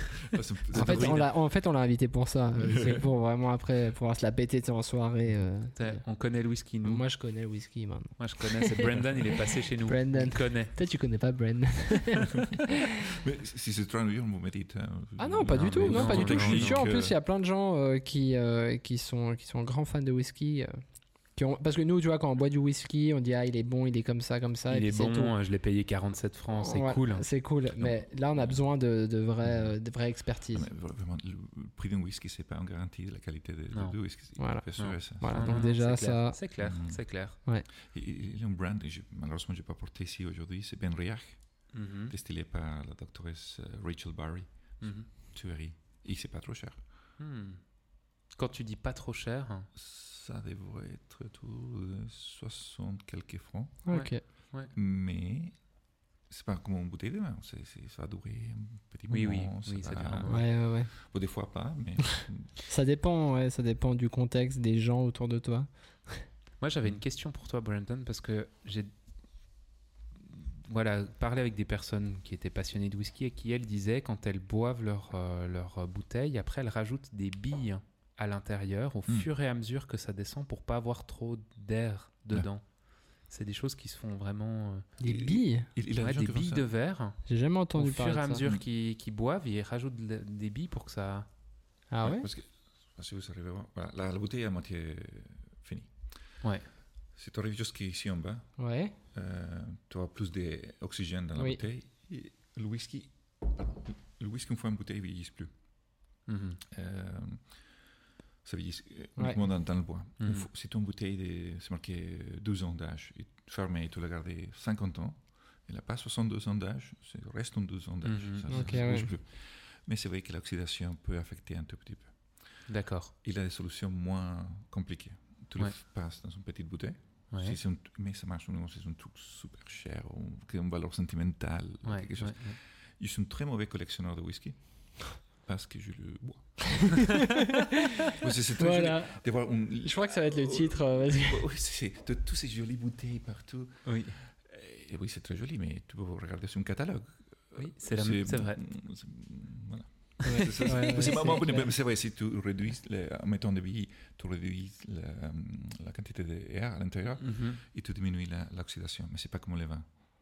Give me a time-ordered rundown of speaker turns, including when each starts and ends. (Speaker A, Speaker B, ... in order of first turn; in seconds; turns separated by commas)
Speaker A: 0.3-1.3, Speaker B: 0.7-6.0, Speaker C: 0.7-1.3, Speaker A: 2.6-3.1, Speaker C: 5.8-7.1, Speaker B: 6.8-9.2, Speaker C: 8.2-10.7, Speaker B: 9.8-12.9, Speaker A: 13.1-17.2, Speaker B: 15.2-20.8, Speaker C: 15.7-16.9, Speaker B: 21.3-25.3, Speaker C: 24.7-27.3, Speaker B: 26.6-30.7, Speaker A: 27.8-28.6, Speaker A: 29.4-29.8, Speaker A: 30.5-35.6, Speaker C: 33.7-34.0, Speaker B: 34.4-36.4, Speaker C: 34.8-37.4, Speaker A: 36.6-37.1, Speaker A: 37.7-46.8, Speaker C: 41.7-42.1, Speaker C: 44.8-45.1, Speaker C: 47.2-47.6, Speaker C: 48.4-49.7, Speaker A: 49.8-53.8, Speaker B: 53.9-54.2, Speaker C: 53.9-54.7, Speaker A: 54.5-55.6, Speaker A: 56.3-62.5, Speaker C: 59.1-60.5, Speaker B: 60.3-60.9, Speaker B: 62.6-66.3, Speaker C: 66.6-68.9, Speaker C: 70.3-84.9, Speaker B: 85.0-85.7, Speaker A: 85.0-86.7, Speaker C: 86.0-87.2, Speaker B: 87.3-88.4, Speaker C: 87.8-91.3, Speaker B: 91.9-92.3, Speaker A: 92.0-95.9, Speaker A: 97.2-98.5, Speaker B: 98.6-98.9, Speaker A: 99.1-105.5, Speaker C: 106.3-106.6, Speaker A: 106.7-107.6, Speaker A: 108.4-122.7, Speaker C: 110.2-110.5, Speaker C: 118.0-118.8, Speaker B: 118.5-119.1, Speaker C: 122.7-123.1, Speaker A: 123.2-137.3, Speaker C: 127.3-127.6, Speaker C: 131.8-132.6, Speaker B: 136.9-137.5, Speaker A: 138.1-159.8, Speaker B: 138.1-139.2, Speaker B: 139.8-141.5, Speaker C: 143.8-144.2, Speaker C: 147.6-148.6, Speaker C: 150.2-151.2, Speaker B: 150.2-151.6, Speaker C: 157.2-157.6